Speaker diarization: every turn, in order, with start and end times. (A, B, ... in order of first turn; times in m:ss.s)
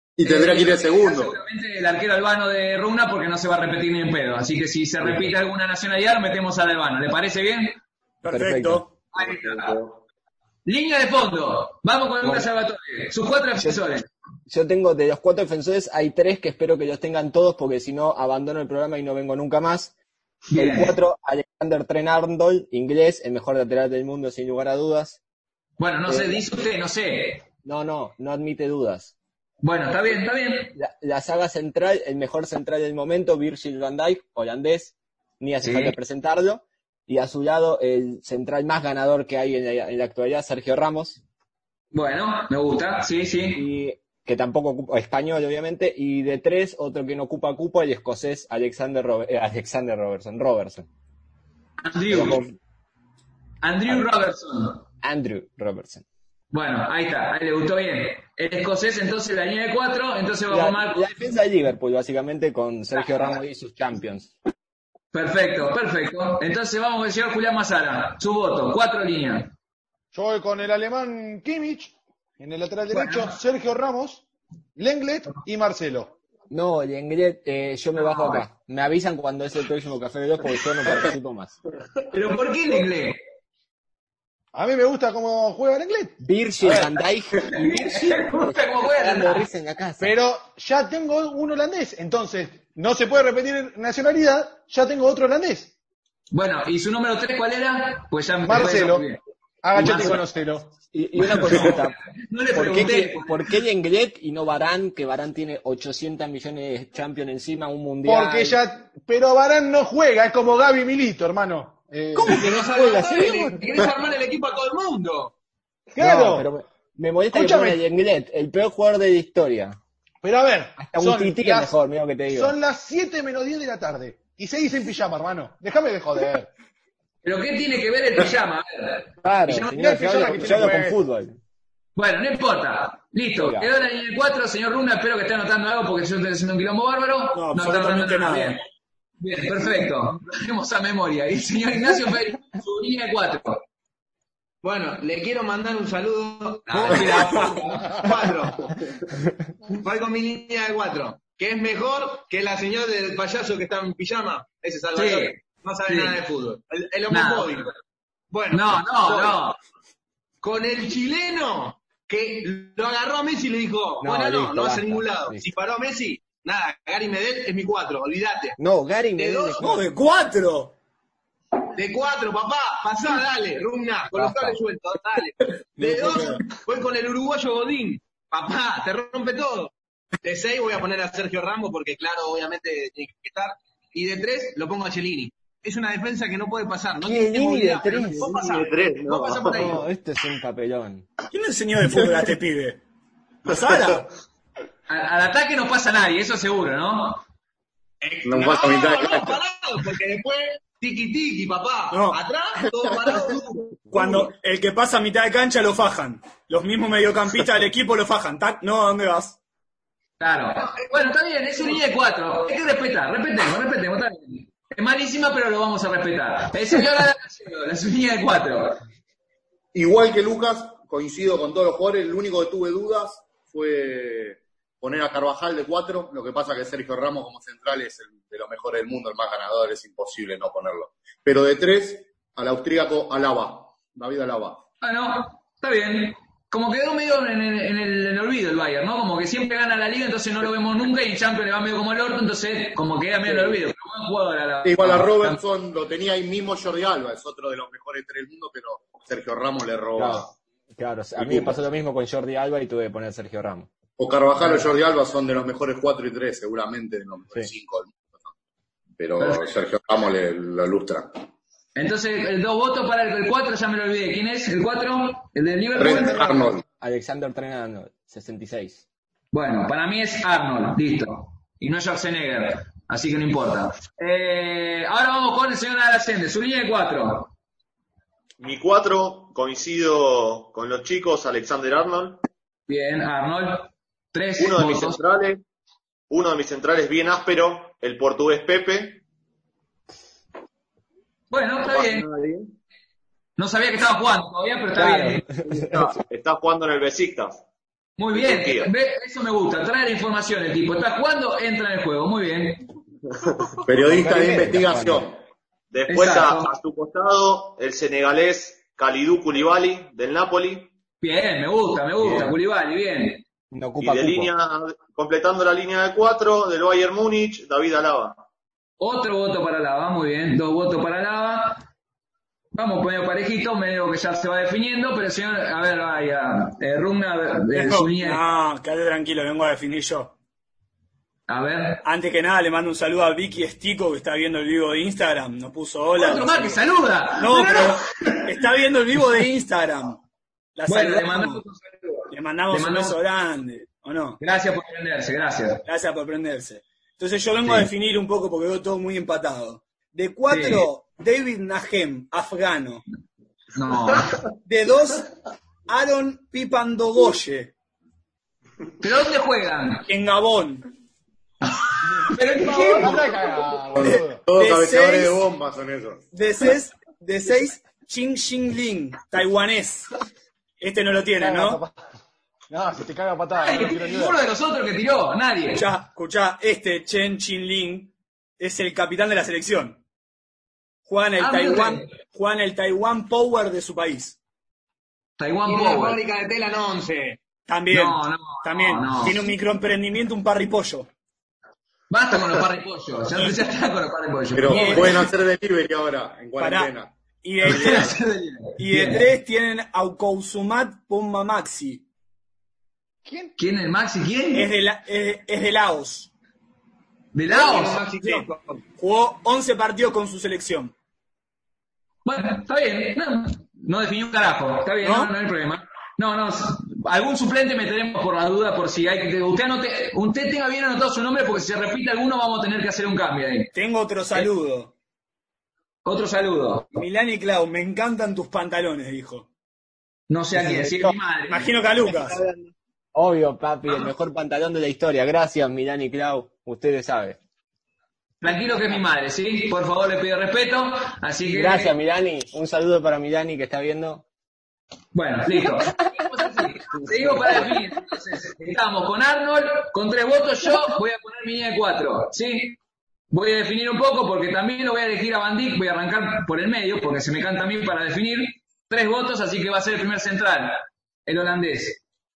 0:00.2-0:01.4 A
0:00.2-0:07.8 B
0:05.0-0:05.3 C
0:08.2-0:09.0 D
0:08.3-0:08.8 C
0:09.2-0:09.8 B
0:09.2-0:10.0 E
0:10.7-0:14.1 B
0:12.2-0:12.5 C
0:14.5-0:20.0 C
0:20.5-0:21.0 B
0:20.5-0:25.2 C
0:25.8-0:27.4 B
0:26.1-0:26.4 C
0:27.6-0:29.1 C
0:29.6-0:30.8 B
0:30.8-0:41.2 C
0:35.6-0:36.0 B
0:41.9-0:43.6 B
0:43.6-0:50.9 C
0:51.8-0:52.4 B
0:52.1-0:52.6 C
0:53.6-0:54.8 B
0:55.0-0:56.0 C
0:56.5-1:01.0 B
1:00.5-1:04.3 C
1:05.1-1:09.5 B
1:10.1-1:14.2 F
1:12.9-1:13.3 B
1:14.8-1:16.2 F
1:16.5-1:21.6 C
1:18.0-1:18.4 B
1:22.1-1:23.2 B
1:24.5-1:26.2 F
1:26.2-1:30.2 C
1:27.5-1:29.5 B
1:30.0-1:35.7 F
1:36.3-1:39.2 B
1:38.4-1:39.0 F
1:39.6-1:40.8 F
1:39.8-1:40.2 B
1:39.8-1:40.2 C
1:40.9-1:42.0 C
1:41.4-1:43.5 B
1:42.5-1:48.6 C
1:48.0-1:52.5 F
1:52.2-1:53.6 C
1:52.2-1:55.3 G
1:55.9-1:56.5 F
1:56.0-1:59.8 C
1:57.3-1:57.8 F
2:00.2-2:01.7 F
2:00.8-2:02.6 C
2:02.3-2:06.5 F
2:07.2-2:09.7 B
2:09.2-2:11.4 C
2:09.7-2:11.0 F
2:12.0-2:18.6 B
2:13.4-2:13.7 C
2:17.3-2:18.6 D
2:19.2-2:23.6 B
2:24.6-2:28.8 G
2:26.8-2:28.0 B
2:26.9-2:27.6 D
2:29.7-2:37.7 G
2:35.0-2:35.4 B
2:35.9-2:36.2 B
2:37.1-2:37.6 B
2:38.3-2:39.4 G
2:38.5-2:39.6 B
2:40.4-2:48.6 G
2:44.0-2:45.5 C
2:48.6-2:49.8 C
2:49.2-2:49.6 G
2:49.6-2:50.8 D
2:51.7-3:09.8 G
2:54.1-2:54.6 C
2:55.8-2:56.4 D
3:07.0-3:08.3 C
3:08.2-3:09.7 E
3:09.5-3:11.1 C
3:11.3-3:12.8 D
3:13.4-3:14.1 D
3:14.9-3:17.2 B
3:18.0-3:23.7 G
3:18.2-3:19.4 A
3:21.9-3:22.2 D
3:23.9-3:29.4 D
3:30.2-3:38.8 B
3:30.7-3:31.8 G
3:39.7-3:54.6 A
3:54.8-4:05.4 B
4:03.3-4:03.6 C
4:04.6-4:10.3 A
4:10.0-4:13.7 C
4:11.2-4:11.6 A
4:14.0-4:18.3 A
4:19.0-4:21.1 A
4:19.2-4:19.5 B
4:21.8-4:26.3 B
4:25.8-4:26.6 A
4:26.2-4:28.8 C
4:29.3-4:37.3 B
4:38.4-4:42.2 E
4:42.7-4:45.0 B
4:44.4-4:45.4 E
4:46.1-4:49.0 E
4:51.3-4:52.1 B
4:51.6-4:52.6 E
4:53.4-4:55.3 B
4:54.8-4:56.0 C
4:55.4-4:57.4 E
4:58.0-5:02.7 B
4:58.1-4:58.7 E
5:03.7-5:05.2 A
5:03.7-5:05.0 C
5:05.7-5:10.7 E
5:05.9-5:06.5 B
5:11.0-5:13.2 B
5:12.0-5:12.3 C
5:13.5-5:14.3 C
5:13.8-5:18.2 E
5:18.8-5:21.6 B
5:22.5-5:28.2 B
5:27.5-5:30.2 D
5:31.3-5:31.8 B
5:31.8-5:36.6 D
5:35.9-5:38.3 B
5:37.2-5:40.0 D
5:40.6-5:41.4 D
5:40.7-5:43.0 B
5:42.1-5:44.2 D
5:44.2-5:45.6 B
5:45.7-5:52.8 D
5:50.3-5:50.7 B
5:53.6-5:54.2 B
5:54.4-5:55.1 D
5:55.7-5:57.5 D
5:58.8-5:59.8 B
5:59.9-6:00.7 D
6:01.4-6:03.3 B
6:02.4-6:04.2 F
6:03.8-6:06.0 A
6:03.8-6:05.2 D
6:06.1-6:09.9 D
6:10.6-6:11.6 D
6:11.2-6:11.8 F
6:12.5-6:14.2 F
6:13.4-6:15.7 B
6:15.6-6:19.8 D
6:20.9-6:24.2 D
6:21.2-6:21.9 B
6:25.2-6:26.0 B
6:25.5-6:27.2 G
6:27.5-6:30.9 D
6:27.7-6:29.2 B
6:31.9-6:35.1 B
6:34.3-6:36.9 A
6:34.5-6:35.0 D
6:36.4-6:38.0 D
6:37.4-6:39.1 B
6:38.6-6:41.8 D
6:43.1-6:43.3 F
6:43.4-6:44.5 B
6:44.3-6:46.1 D
6:47.1-6:47.8 B
6:47.3-6:48.6 G
6:47.9-6:50.7 D
6:52.0-7:03.5 B
6:54.8-6:55.1 D
7:03.5-7:04.7 D
7:05.8-7:06.8 B
7:06.8-7:09.3 D
7:10.1-7:11.5 B
7:10.4-7:11.0 C
7:11.3-7:12.2 D
7:12.9-7:17.2 C
7:18.2-7:21.7 B
7:21.3-7:24.0 C
7:24.9-7:32.6 B
7:26.9-7:27.5 C
7:33.1-7:41.8 B